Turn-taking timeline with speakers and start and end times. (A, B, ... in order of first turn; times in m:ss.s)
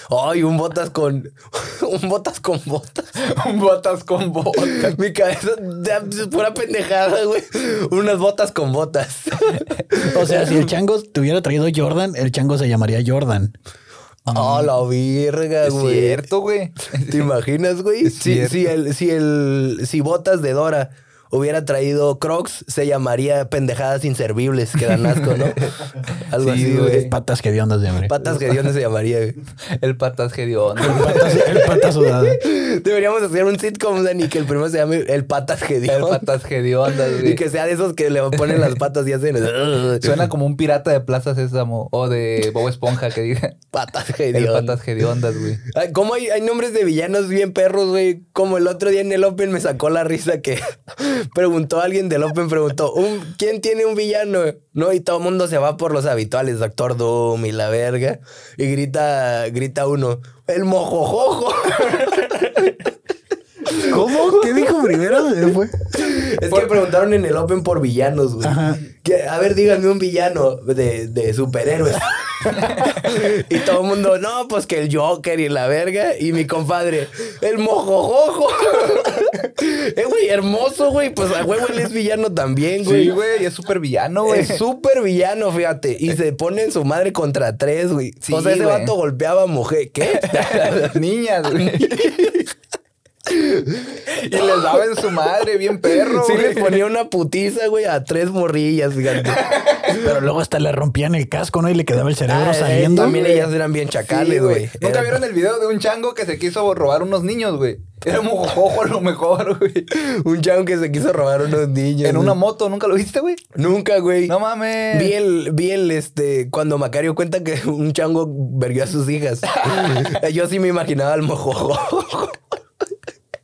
0:00.1-0:03.1 A
0:03.2-0:05.0 B
0:04.6-0:10.7 A
0:10.1-0:13.5 C
0:14.3-0:14.7 B
0:14.3-0:16.2 A
0:15.6-0:17.3 B
0:17.1-0:27.1 A
0:18.0-0:18.7 B
0:25.0-0:25.5 B
0:26.3-0:27.1 B
0:26.9-0:28.1 C
0:28.0-0:29.4 A
0:29.7-0:31.6 B
0:30.8-0:32.4 C
0:30.9-0:36.2 A
0:35.9-0:37.4 B
0:37.1-0:40.2 A
0:38.4-0:38.7 B
0:40.0-0:43.6 B
0:43.7-0:44.8 A
0:44.3-0:45.6 B
0:45.6-1:02.8 A
1:03.7-1:05.2 A
1:03.8-1:05.8 C
1:05.9-1:23.2 A
1:06.5-1:06.8 B
1:08.4-1:08.8 C
1:12.6-1:12.9 B
1:22.8-1:24.6 B
1:24.2-1:31.0 A
1:28.2-1:28.9 B
1:30.1-1:32.4 B
1:31.6-1:32.3 A
1:33.3-1:34.8 A
1:34.1-1:36.8 B
1:35.9-1:39.5 A
1:39.2-1:40.0 B
1:39.9-1:43.2 C
1:42.3-1:45.2 A
1:42.9-1:43.5 B
1:44.0-1:49.9 B
1:49.9-1:52.4 A
1:52.0-1:53.4 B
1:53.5-1:54.3 A
1:54.3-1:55.1 B
1:54.9-2:02.4 A
1:59.7-2:00.0 B